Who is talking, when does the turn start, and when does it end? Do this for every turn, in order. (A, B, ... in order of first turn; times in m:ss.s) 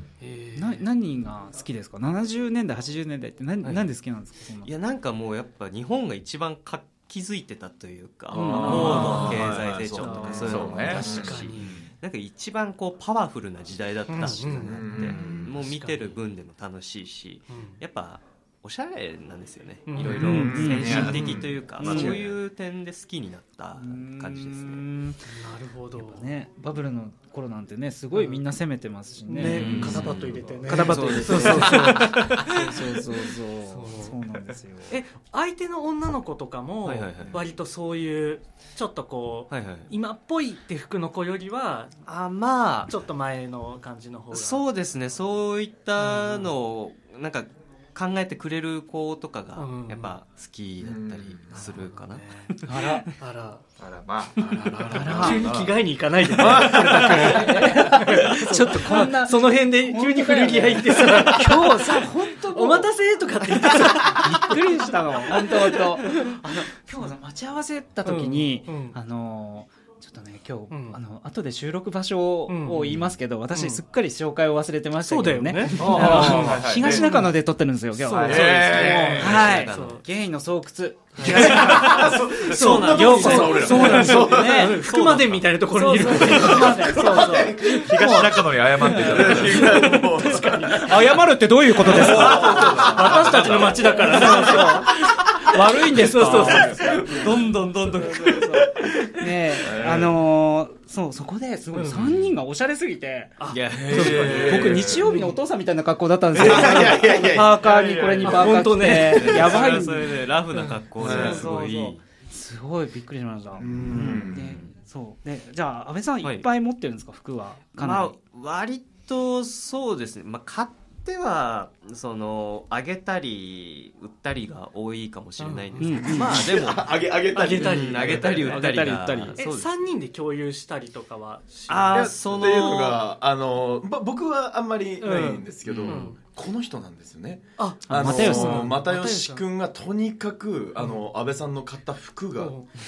0:00.2-0:00.9 A
0:00.6-0:04.7 B
0:04.6-0:24.9 C
0:08.3-0:09.4 B
0:08.4-0:09.4 A
0:08.5-0:11.4 D
0:08.8-0:11.9 E
0:10.0-0:10.6 B
0:10.0-0:11.8 A
0:14.1-0:16.0 A
0:14.6-0:15.6 D
0:17.5-0:17.8 A
0:19.9-0:20.8 A
0:20.0-0:22.4 D
0:20.1-0:22.2 B
0:20.8-0:21.5 E
0:23.8-0:25.3 B
0:25.3-0:26.3 A
0:26.0-0:30.1 B
0:28.1-0:28.5 A
0:29.3-0:33.0 A
0:29.4-0:32.3 C
0:29.6-0:30.6 D
0:30.6-0:35.0 B
0:33.6-0:34.2 A
0:34.9-0:42.0 A
0:36.8-0:37.4 C
0:39.5-0:39.9 C
0:42.1-0:43.0 C
0:42.9-0:44.6 A
0:44.3-0:53.0 C
0:46.0-0:46.5 A
0:49.6-0:50.1 A
0:50.8-0:51.9 D
0:51.5-0:52.5 A
0:52.6-0:53.1 B
0:53.2-0:53.6 A
0:53.8-0:55.8 E
0:54.5-0:55.5 D
0:54.6-1:06.4 A
0:54.6-0:55.4 B
0:56.4-0:57.5 D
0:57.0-1:02.9 B
1:03.7-1:25.0 B
1:08.0-1:09.0 A
1:10.7-1:11.0 A
1:12.5-1:12.9 A
1:12.9-1:13.2 C
1:13.5-1:13.8 A
1:15.0-1:17.4 A
1:15.8-1:16.6 D
1:15.8-1:17.1 E
1:18.0-1:19.0 A
1:18.2-1:19.4 E
1:18.2-1:19.5 D
1:18.6-1:20.0 C
1:19.6-1:20.0 A
1:21.2-1:28.0 A
1:21.2-1:24.9 D
1:21.4-1:22.0 C
1:22.6-1:24.1 C
1:24.9-1:25.5 C
1:25.7-1:29.7 B
1:26.0-1:28.2 D
1:27.8-1:29.8 E
1:28.8-1:31.3 A
1:28.9-1:31.0 D
1:30.8-1:32.9 B
1:31.8-1:34.6 D
1:31.8-1:35.0 A
1:31.9-1:34.1 E
1:33.3-1:33.6 C
1:34.0-1:34.9 B
1:35.5-1:43.4 B
1:35.7-1:37.3 A
1:36.2-1:37.4 D
1:36.5-1:38.5 C
1:38.8-1:40.1 D
1:41.7-1:42.1 A
1:41.9-1:42.4 C
1:43.4-1:45.4 A
1:43.5-1:44.8 C
1:43.7-1:45.0 D
1:43.9-1:50.1 B
1:46.3-1:47.6 D
1:46.7-1:48.6 E
1:48.2-1:49.9 A
1:49.0-1:52.0 C
1:50.5-1:50.8 A
1:51.0-1:51.5 D
1:51.0-1:58.2 B
1:53.6-1:54.6 D
1:54.0-1:54.7 C
1:57.8-2:09.7 C
2:05.4-2:06.2 A
2:05.8-2:06.4 B
2:06.0-2:08.8 D
2:07.3-2:12.1 A
2:08.6-2:09.4 B
2:11.7-2:13.0 C
2:11.9-2:22.6 D
2:15.0-2:16.2 A
2:15.6-2:16.1 C
2:17.6-2:19.4 A
2:17.9-2:18.8 B
2:20.8-2:21.0 A
2:22.4-2:22.8 A